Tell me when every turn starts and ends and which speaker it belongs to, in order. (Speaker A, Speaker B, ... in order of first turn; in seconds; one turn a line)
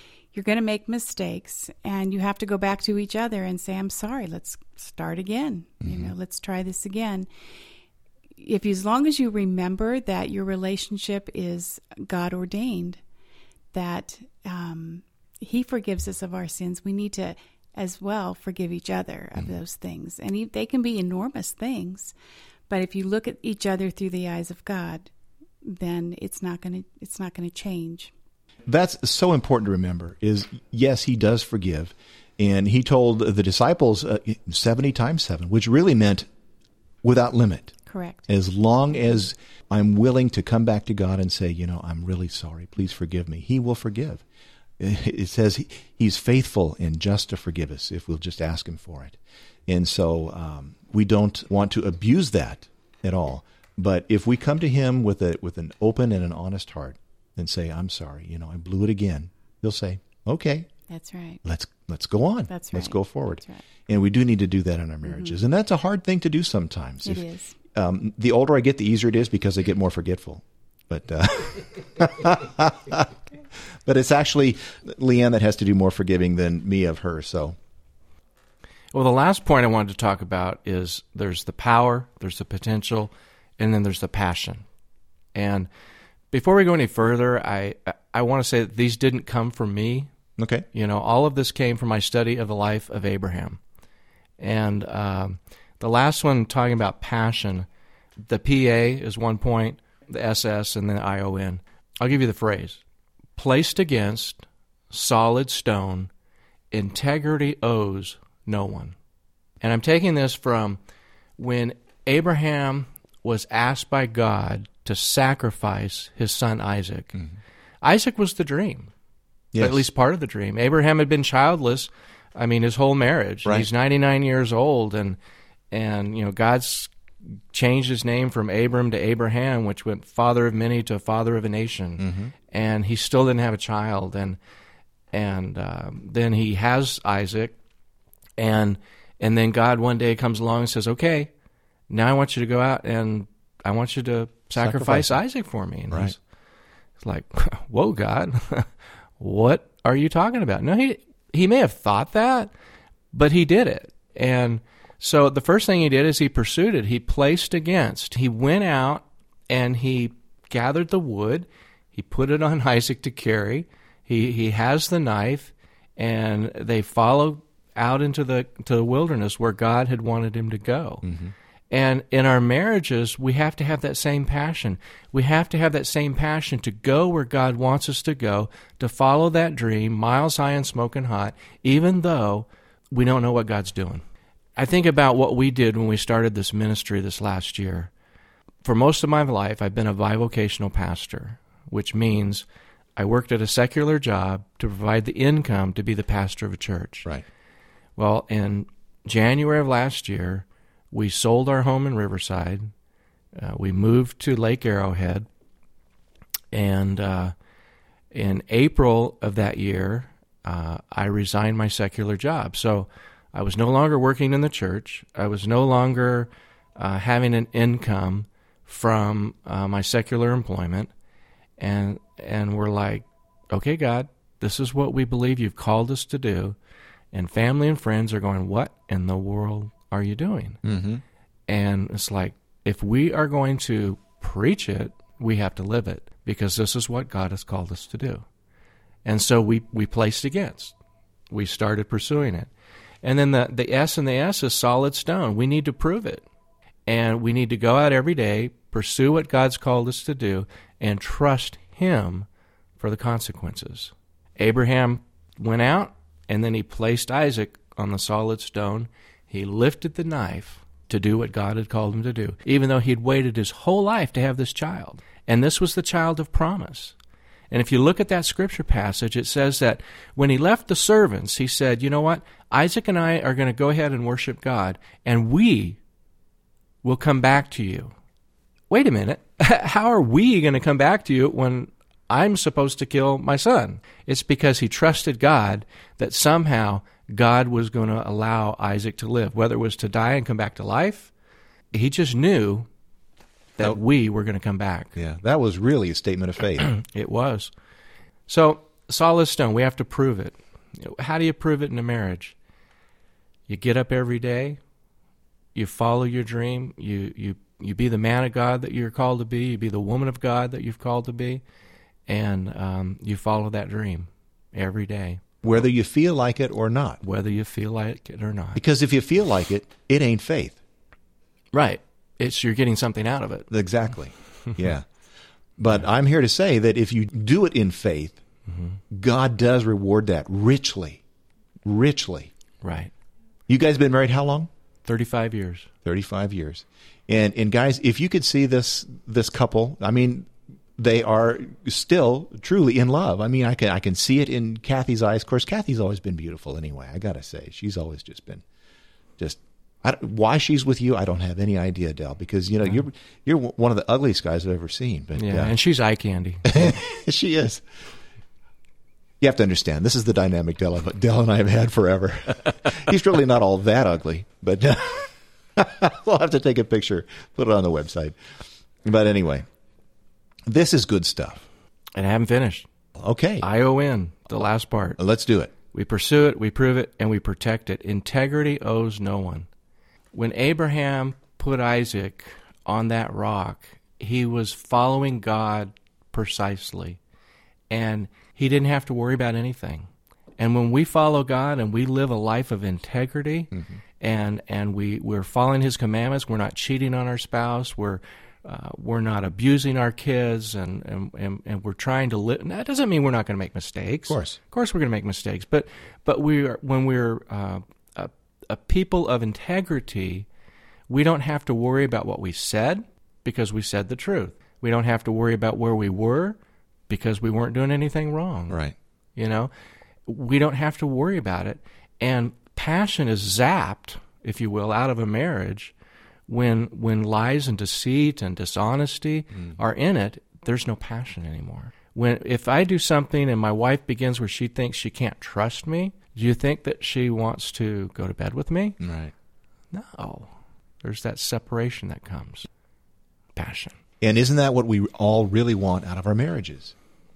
Speaker A: 0.3-7.3
Speaker B: 5.8-6.1
Speaker A: 8.4-13.0
Speaker A: 13.7-22.1
Speaker A: 22.7-25.1
Speaker A: 25.6-28.1
Speaker B: 28.7-36.3
Speaker B: 37.0-37.7
Speaker A: 37.9-38.2
Speaker B: 38.3-44.2
Speaker B: 44.8-60.7
Speaker A: 60.9-61.4
Speaker B: 61.4-73.1
Speaker A: 62.5-63.6
Speaker A: 65.1-65.3
Speaker A: 67.0-67.5
Speaker B: 73.8-77.5
Speaker C: 78.9-84.6
Speaker C: 85.3-85.7
Speaker C: 86.3-90.1
Speaker B: 90.4-90.6
Speaker C: 90.7-93.6
Speaker C: 94.4-97.7
Speaker C: 98.2-102.8
Speaker C: 103.3-106.1
Speaker C: 106.7-109.0
Speaker C: 109.6-110.8
Speaker C: 111.4-117.2
Speaker C: 117.8-118.9
Speaker B: 119.5-119.8
Speaker C: 119.6-125.2
Speaker C: 125.7-126.9
Speaker C: 127.5-134.4
Speaker B: 132.0-132.3
Speaker C: 135.1-137.6
Speaker C: 138.4-141.3
Speaker C: 141.9-146.2
Speaker B: 144.6-145.2
Speaker C: 147.0-152.5
Speaker C: 153.1-171.0
Speaker B: 171.0-171.3
Speaker C: 171.7-184.0
Speaker C: 184.6-187.9
Speaker C: 188.6-192.4
Speaker C: 192.9-197.1
Speaker C: 198.0-202.7
Speaker C: 203.3-205.3
Speaker C: 206.5-207.3
Speaker C: 208.1-220.9
Speaker C: 221.6-226.6
Speaker C: 227.1-230.6
Speaker B: 230.6-231.0
Speaker C: 231.5-238.2
Speaker C: 239.0-240.7
Speaker C: 241.3-242.5
Speaker C: 243.0-246.2
Speaker C: 246.9-252.3
Speaker C: 252.8-266.9
Speaker C: 267.5-275.8
Speaker C: 276.8-277.9
Speaker C: 278.7-291.1
Speaker C: 291.7-292.7
Speaker C: 293.6-295.0
Speaker B: 294.9-296.7
Speaker C: 296.6-297.5
Speaker C: 298.3-302.3
Speaker C: 303.5-304.6
Speaker C: 305.5-311.4
Speaker C: 312.1-315.4
Speaker B: 315.4-317.0
Speaker C: 317.0-318.6
Speaker B: 318.6-320.6
Speaker C: 321.5-323.5
Speaker B: 323.5-324.9
Speaker B: 325.6-328.2
Speaker C: 328.5-328.8
Speaker B: 328.9-331.0
Speaker B: 331.6-332.3
Speaker C: 332.6-332.9
Speaker B: 333.5-334.5
Speaker C: 334.8-335.7
Speaker B: 335.8-348.4
Speaker B: 349.2-355.5
Speaker C: 355.1-356.7
Speaker B: 356.4-357.6
Speaker B: 359.2-368.1
Speaker B: 368.8-369.5
Speaker B: 370.5-371.4
Speaker C: 371.9-372.7
Speaker B: 373.0-373.5
Speaker C: 373.4-375.0
Speaker B: 375.0-375.5
Speaker C: 375.7-379.5
Speaker C: 380.1-387.0
Speaker C: 387.7-410.3
Speaker B: 404.1-404.4
Speaker C: 410.9-416.4
Speaker C: 416.9-418.6
Speaker B: 418.5-418.7
Speaker C: 419.1-419.5
Speaker C: 420.1-425.7
Speaker C: 426.3-438.8
Speaker B: 438.8-439.1
Speaker C: 439.7-442.5
Speaker C: 443.3-443.8
Speaker B: 444.0-446.7